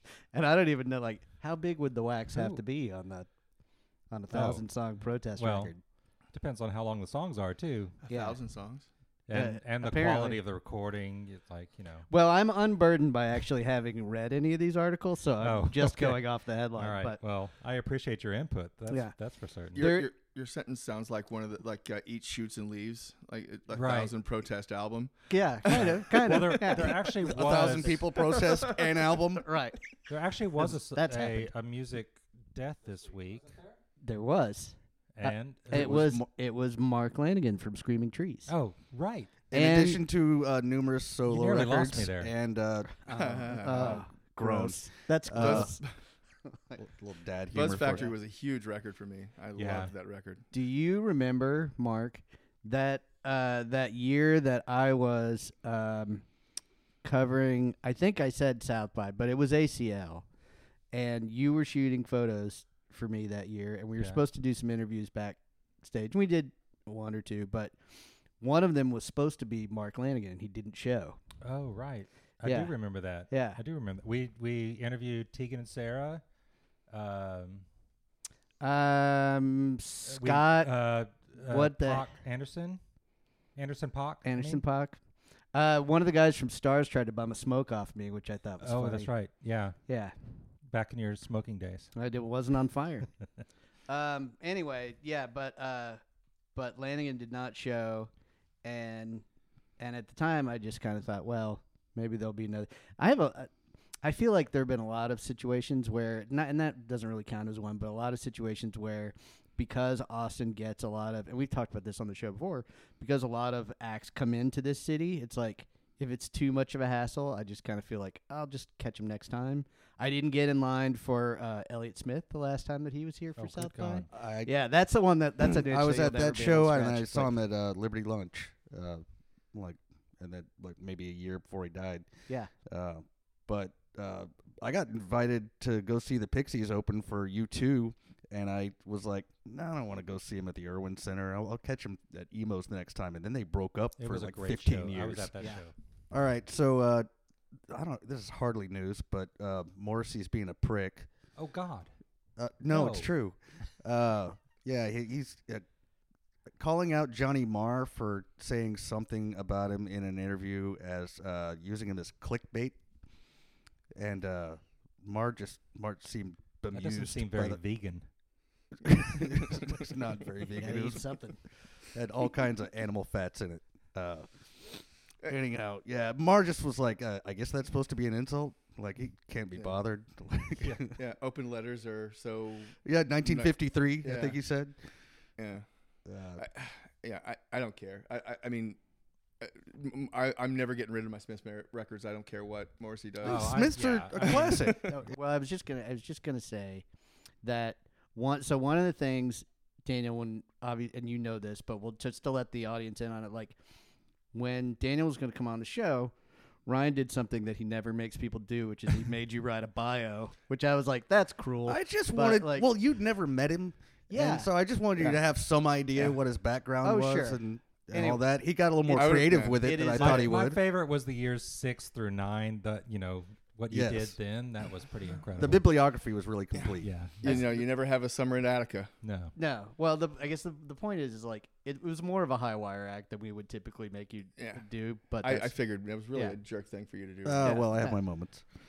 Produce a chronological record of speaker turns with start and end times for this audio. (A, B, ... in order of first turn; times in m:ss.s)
0:00.3-0:03.3 A
0:02.3-0:02.6 B
0:04.1-0:05.8 A
0:04.3-0:04.6 B
0:05.4-0:05.7 B
0:06.3-0:08.0 B
0:08.0-0:08.9 C
0:08.1-0:08.4 A
0:09.3-0:12.1 B
0:09.3-0:10.4 A
0:12.1-0:17.2 A
0:15.4-0:16.2 B
0:16.8-0:19.8 B
0:19.8-0:20.1 A
0:19.8-0:25.1 C
0:23.7-0:24.1 B
0:25.3-0:27.0 A
0:25.7-0:28.0 B
0:26.3-0:29.5 D
0:29.4-0:29.8 A
0:30.1-0:33.8 B
0:30.6-0:31.5 A
0:34.0-0:38.5 A
0:35.2-0:36.0 B
0:35.7-0:36.3 D
0:38.5-0:39.3 B
0:39.5-0:40.0 A
0:39.5-0:45.8 D
0:41.2-0:42.3 B
0:43.1-0:45.8 A
0:43.2-0:44.0 C
0:45.4-0:45.9 C
0:46.8-0:48.1 D
0:47.5-0:50.4 C
0:49.6-0:49.9 B
0:50.5-0:56.2 A
0:57.0-1:00.2 A
1:00.9-1:07.8 A
1:04.0-1:04.2 B
1:08.4-1:11.2 A
1:11.4-1:16.2 B
1:12.4-1:12.7 A
1:13.3-1:13.6 A
1:16.9-1:17.7 B
1:18.6-1:20.7 A
1:20.1-1:22.8 B
1:21.5-1:22.1 A
1:23.6-1:24.6 B
1:24.2-1:25.0 A
1:25.5-1:29.1 A
1:28.6-1:29.8 B
1:29.9-1:30.3 A
1:30.7-1:31.9 B
1:31.9-1:33.1 A
1:33.9-1:36.0 A
1:36.6-1:38.1 A
1:38.6-1:39.2 A
1:39.8-1:43.5 A
1:44.0-2:07.4 A
2:03.4-2:04.1 B
2:04.1-2:04.5 D
2:05.4-2:12.1 D
2:12.7-2:25.6 D
2:24.0-2:25.7 B
2:26.1-2:27.1 D
2:27.7-2:31.1 D
2:31.4-2:31.9 B
2:32.4-2:35.7 D
2:32.7-2:33.1 B
2:36.6-2:42.8 D
2:43.9-2:47.6 D
2:46.7-2:48.0 B
2:48.8-2:51.2 D
2:50.5-2:51.4 A
2:51.9-3:01.0 D
3:00.9-3:04.4 C
3:02.8-3:04.8 D
3:05.4-3:05.7 C
3:06.1-3:06.4 D
3:06.4-3:08.8 C
3:09.4-3:14.9 C
3:13.2-3:15.0 D
3:13.2-3:14.8 B
3:14.4-3:16.8 A
3:17.4-3:23.6 A
3:24.3-3:26.1 A
3:26.7-3:32.7 A
3:31.7-3:40.6 D
3:34.1-3:34.5 A
3:36.8-3:38.2 A
3:38.8-3:40.3 A
3:39.0-3:39.6 C
3:39.9-3:45.7 B
3:43.7-3:44.2 D
3:45.4-3:46.9 D
3:46.5-3:48.9 C
3:46.8-3:47.2 B
3:47.2-3:47.6 A
3:49.0-3:49.3 B
3:49.4-3:55.6 A
3:54.4-3:54.7 C
3:55.2-3:57.6 C
3:57.2-3:58.4 D
3:57.4-3:58.0 A